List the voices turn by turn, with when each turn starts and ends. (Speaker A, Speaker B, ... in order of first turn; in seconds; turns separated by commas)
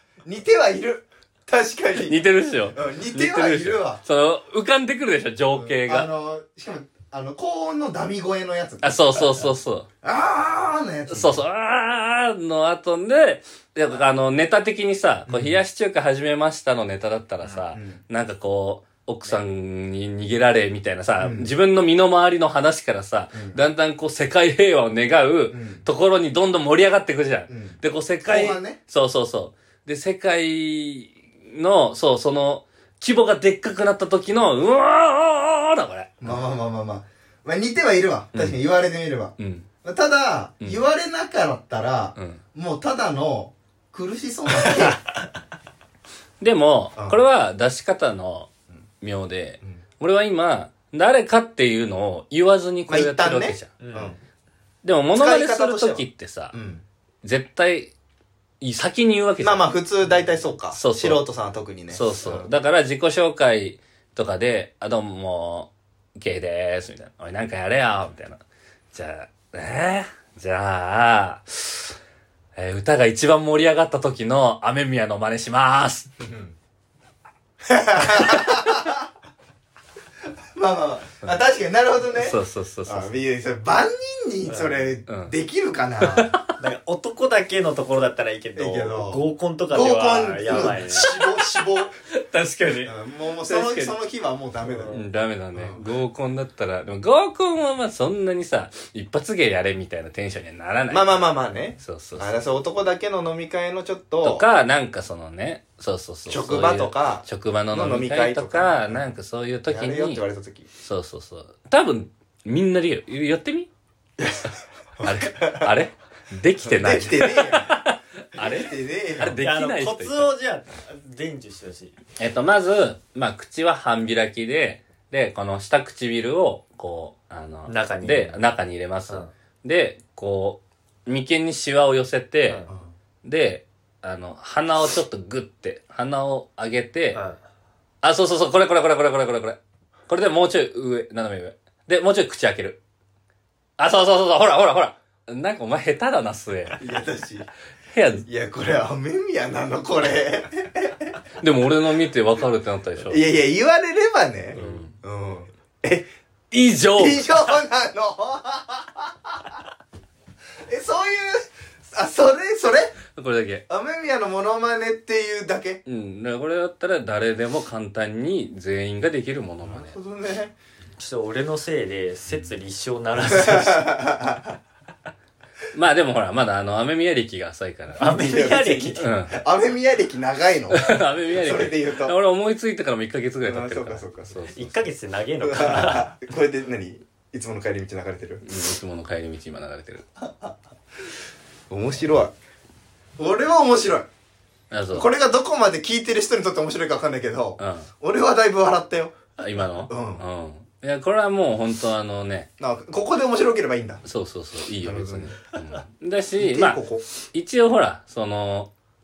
Speaker A: 0.2-2.2, Speaker B: 2.0-6.1, Speaker A: 2.7-4.0, Speaker A: 5.5-9.5, Speaker B: 8.8-9.9, Speaker A: 10.0-11.4, Speaker B: 11.1-36.4, Speaker A: 15.3-15.6, Speaker A: 17.7-18.0, Speaker A: 21.2-21.5, Speaker A: 23.3-23.6, Speaker A: 25.5-25.9, Speaker A: 27.5-28.8, Speaker A: 36.2-45.0, Speaker B: 38.3-38.6, Speaker B: 39.4-39.7, Speaker B: 42.2-42.4, Speaker B: 46.4-53.7, Speaker A: 52.9-54.2, Speaker C: 53.8-54.2, Speaker B: 54.8-56.5, Speaker A: 55.1-56.8, Speaker B: 57.2-57.9, Speaker B: 58.6-59.7, Speaker A: 59.4-62.5, Speaker B: 60.7-61.2, Speaker B: 61.9-68.4, Speaker B: 68.9-72.0, Speaker B: 72.5-76.1, Speaker A: 76.2-76.5, Speaker A: 77.6-79.1, Speaker A: 80.5-86.3, Speaker B: 82.1-83.2, Speaker C: 84.5-85.0, Speaker B: 85.1-85.3, Speaker B: 86.0-86.5, Speaker C: 86.6-91.2, Speaker A: 88.6-92.0, Speaker B: 90.7-94.0, Speaker A: 92.8-95.0, Speaker C: 94.6-95.1, Speaker B: 94.9-102.3, Speaker A: 95.5-95.8, Speaker A: 100.9-104.5, Speaker B: 104.2-110.2, Speaker A: 106.3-109.0, Speaker A: 109.7-110.7, Speaker B: 110.8-113.7, Speaker A: 114.2-114.5, Speaker B: 115.0-120.3, Speaker A: 115.0-115.7, Speaker A: 116.6-117.8, Speaker A: 118.4-119.4, Speaker C: 119.4-122.0, Speaker B: 122.2-132.7, Speaker C: 127.7-128.4, Speaker B: 133.2-137.2, Speaker C: 137.1-137.4, Speaker B: 138.0-142.8, Speaker B: 143.8-147.0, Speaker A: 146.8-147.5, Speaker B: 147.9-148.3, Speaker A: 148.2-151.2, Speaker B: 151.4-153.2, Speaker A: 153.1-156.1, Speaker B: 154.6-154.9, Speaker B: 156.5-157.6, Speaker A: 156.9-159.6, Speaker A: 160.7-163.0, Speaker B: 163.1-163.7, Speaker A: 163.7-165.8, Speaker B: 165.9-170.0, Speaker A: 169.6-170.5, Speaker C: 171.0-174.0, Speaker A: 173.3-174.6, Speaker B: 175.7-178.3, Speaker A: 178.0-182.2, Speaker C: 178.0-179.1, Speaker B: 179.0-179.4, Speaker B: 180.7-184.8, Speaker A: 183.4-184.5, Speaker C: 184.5-186.2, Speaker A: 185.4-188.4, Speaker B: 188.4-190.1, Speaker A: 190.3-190.5, Speaker A: 191.7-192.3, Speaker A: 193.2-194.1, Speaker B: 194.7-195.1, Speaker A: 194.9-199.2, Speaker B: 197.6-197.9, Speaker B: 199.4-202.5, Speaker A: 199.9-200.2, Speaker A: 202.6-204.0, Speaker B: 204.0-206.8, Speaker A: 204.8-205.4, Speaker A: 206.4-207.1, Speaker B: 207.3-208.7